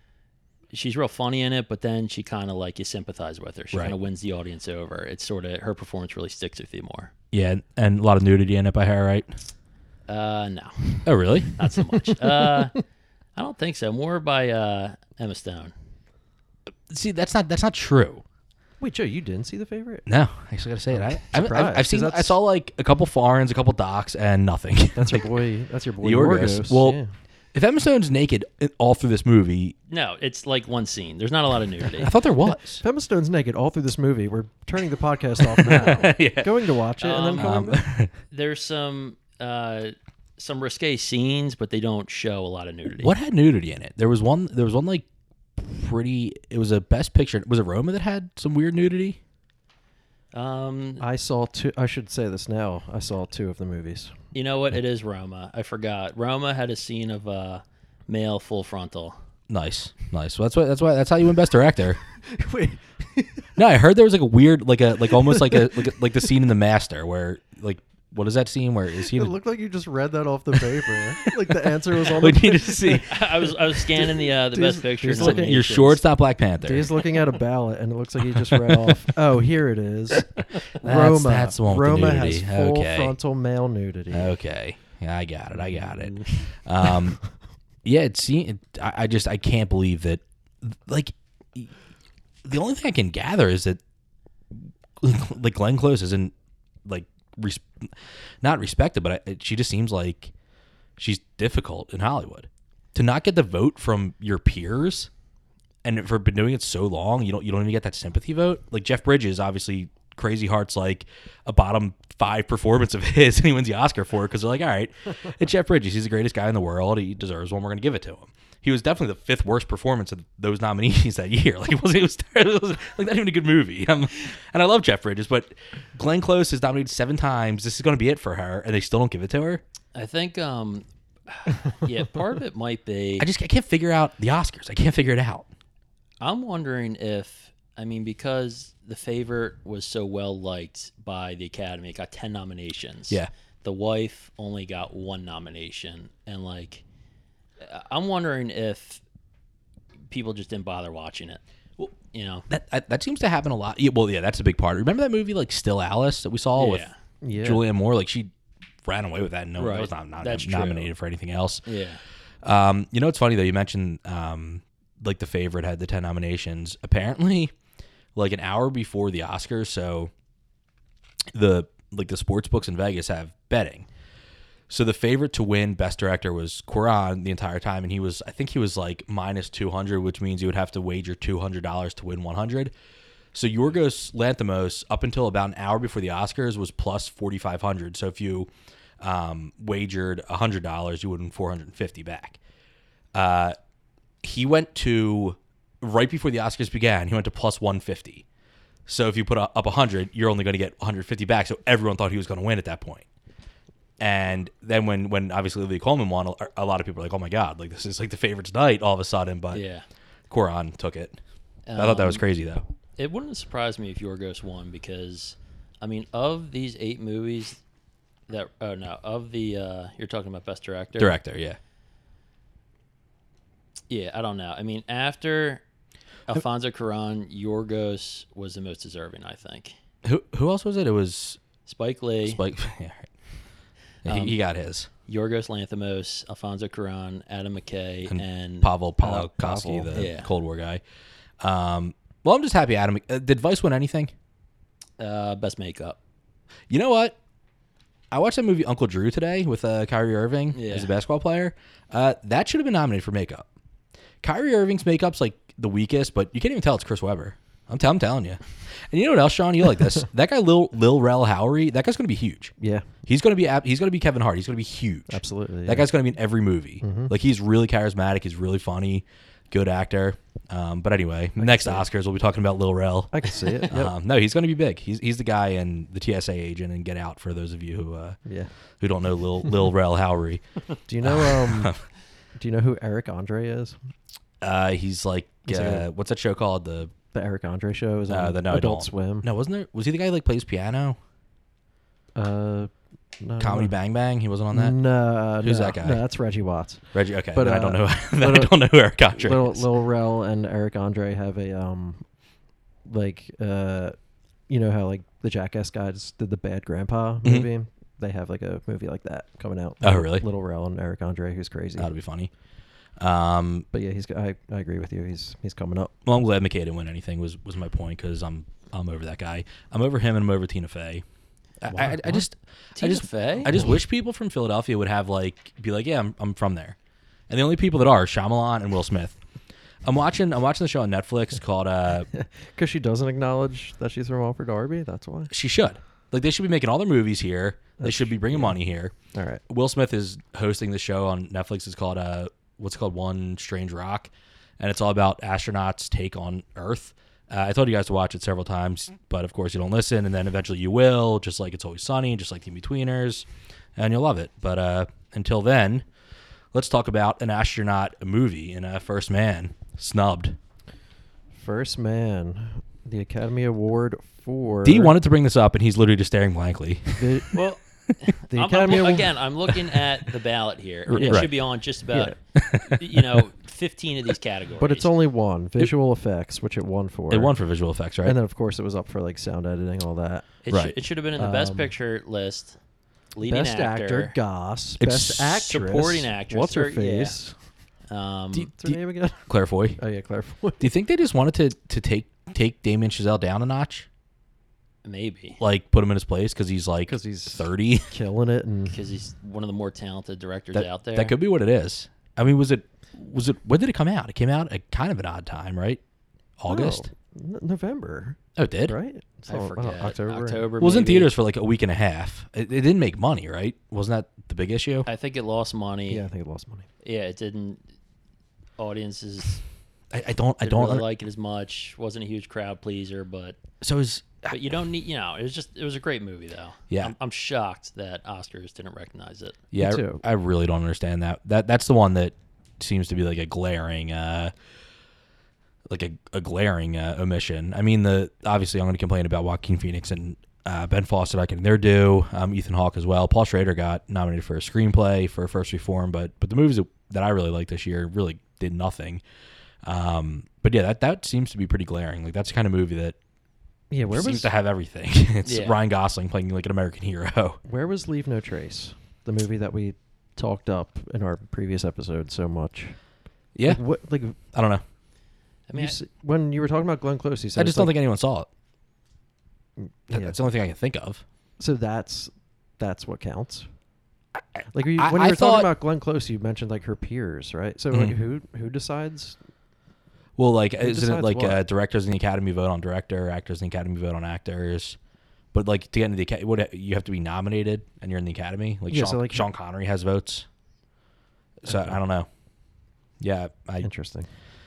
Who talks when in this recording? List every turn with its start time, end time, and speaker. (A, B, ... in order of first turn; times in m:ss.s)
0:00.7-0:07.1 A
0:07.3-0:09.3 B
0:10.1-0:12.8 A
0:11.0-0:11.6 B
0:13.3-0:15.7 A
0:16.9-0:18.2 B
0:18.8-0:20.1 C
0:20.1-0:25.3 B
0:21.0-0:22.4 C
0:24.9-0:27.1 C
0:26.0-0:27.0 B
0:27.5-0:29.8 B
0:29.9-0:32.1 A
0:32.0-0:32.8 B
0:32.8-0:37.8 C
0:35.6-0:36.8 B
0:37.0-0:37.6 A
0:37.4-0:38.1 B
0:38.3-0:43.1 A
0:42.9-0:45.0 B
0:45.6-0:49.2 B
0:50.3-0:51.0 A
0:51.0-0:54.2 C
0:54.3-0:59.2 A
0:59.5-1:02.0 B
1:02.2-1:03.4 C
1:03.6-1:09.3 B
1:05.2-1:05.6 C
1:09.1-1:13.2 C
1:10.8-1:13.5 B
1:13.1-1:16.0 A
1:13.9-1:15.6 C
1:15.2-1:16.9 B
1:16.6-1:24.4 C
1:18.5-1:18.9 B
1:20.4-1:23.1 B
1:24.1-1:27.2 B
1:25.8-1:26.4 A
1:27.8-1:31.7 B
1:32.4-1:33.8 B
1:34.5-1:36.3 B
1:36.8-1:40.3 B
1:41.0-1:45.1 B
1:45.8-2:09.6 B
2:09.9-2:13.3 A
2:13.2-2:15.5 B
2:16.2-2:26.8 A
2:27.6-2:29.0 A
2:30.1-2:32.5 A
2:32.5-2:36.9 B
2:36.6-2:36.9 A
2:37.2-2:37.6 C
2:37.4-2:38.3 B
2:38.8-2:41.6 B
2:39.6-2:40.9 A
2:41.6-2:42.0 A
2:42.4-2:47.5 B
2:48.1-2:50.1 B
2:51.3-2:53.9 B
2:54.7-3:02.7 B
3:03.3-3:12.4 B
3:13.1-3:13.6 B
3:14.2-3:18.2 B
3:18.8-3:23.0 B
3:24.0-3:29.6 B
3:29.5-3:29.8 A
3:30.3-3:31.2 B
3:31.7-3:32.2 A
3:31.8-3:32.6 B
3:33.0-3:37.6 A
3:38.3-3:41.2 A
3:41.0-3:41.6 B
3:43.9-3:45.6 A
3:46.3-3:49.7 A
3:50.0-3:51.4 B
3:51.6-3:52.4 A
3:52.2-3:53.1 B
3:54.0-3:54.9 B
3:54.0-3:54.4 A
3:55.0-3:58.7 A
3:58.1-4:00.8 B
3:59.0-4:00.0 C
3:59.9-4:00.3 A
4:01.4-4:04.1 B
4:05.0-4:06.0 A
4:06.7-4:07.2 B
4:08.1-4:13.5 B
4:10.5-4:10.9 A
4:14.2-4:22.5 B
4:22.6-4:22.9 C
4:23.0-4:38.2 B
4:25.1-4:25.9 C
4:26.8-4:27.1 C
4:31.4-4:31.8 C
4:33.1-4:33.9 C
4:38.2-4:38.5 C
4:38.8-4:40.4 B
4:40.9-4:41.7 C
4:41.0-4:41.8 B
4:42.4-4:43.8 C
4:44.4-4:46.9 B
4:45.4-4:45.9 C
4:47.1-4:49.3 C
4:48.1-4:51.0 B
4:52.1-4:53.8 C
4:53.4-4:54.8 B
4:54.5-4:58.6 C
4:55.4-4:56.0 B
4:56.9-4:59.6 B
4:59.1-5:02.0 C
5:02.8-5:04.0 C
5:04.5-5:11.9 C
5:09.8-5:10.2 B
5:11.8-5:12.3 B
5:13.0-5:13.7 B
5:13.7-5:15.9 C
5:16.0-5:21.0 B
5:21.6-5:26.8 B
5:21.7-5:22.2 C
5:22.8-5:23.6 A
5:27.3-5:29.2 B
5:29.8-5:32.1 B
5:32.1-5:35.3 C
5:35.3-5:38.9 B
5:37.8-5:38.6 C
5:39.1-5:39.4 C
5:39.5-5:55.8 B
5:56.5-6:00.4 B
6:01.3-6:05.0 C
6:04.6-6:07.4 B
6:06.9-6:07.4 C
6:07.3-6:14.9 A
6:08.3-6:09.2 C
6:10.9-6:11.3 B
6:11.0-6:11.3 C
6:11.9-6:12.2 C
6:12.3-6:13.2 B
6:14.6-6:17.3 C
6:17.1-6:18.2 B
6:18.0-6:20.3 C
6:20.4-6:22.6 A
6:20.5-6:20.8 B
6:21.2-6:21.7 C
6:23.1-6:24.2 A
6:23.2-6:27.3 C
6:24.8-6:25.3 B
6:25.3-6:27.2 A
6:27.9-6:28.5 A
6:28.4-6:30.7 C
6:28.6-6:29.8 B
6:30.6-6:33.9 B
6:34.8-6:35.4 A
6:35.4-6:37.9 B
6:36.9-6:38.8 C
6:38.7-6:41.1 A
6:40.5-6:45.8 B
6:46.4-6:46.9 B
6:46.5-6:50.5 C
6:48.4-6:48.7 B
6:49.3-6:51.1 A
6:50.6-6:54.9 B
6:54.8-6:56.0 A
6:55.9-6:56.6 C
6:56.8-6:57.6 A
6:58.6-6:59.4 A
6:59.9-7:00.8 B
7:00.4-7:03.4 A
7:03.6-7:04.4 B
7:04.3-7:09.4 A
7:06.7-7:06.9 B
7:09.5-7:14.3 B
7:09.6-7:10.0 C
7:15.7-7:29.0 B
7:29.6-7:33.0 B
7:33.7-7:34.3 C
7:33.9-7:37.4 B
7:35.2-7:35.6 A
7:37.4-7:42.8 C
7:43.3-7:43.6 B
7:43.4-7:44.2 C
7:44.3-7:44.6 B
7:45.5-7:45.8 A
7:45.5-7:47.7 C
7:47.4-7:48.3 B
7:49.6-7:50.2 C
7:49.9-7:51.0 B
7:51.4-7:53.5 C
7:54.1-7:55.5 B
7:54.5-7:59.2 C
7:57.7-7:58.0 B
8:00.2-8:04.8 B
8:00.6-8:01.4 C
8:05.3-8:10.2 B
8:08.7-8:09.3 C
8:11.4-8:12.1 B
8:11.5-8:11.8 C
8:13.0-8:13.7 B
8:13.6-8:14.1 C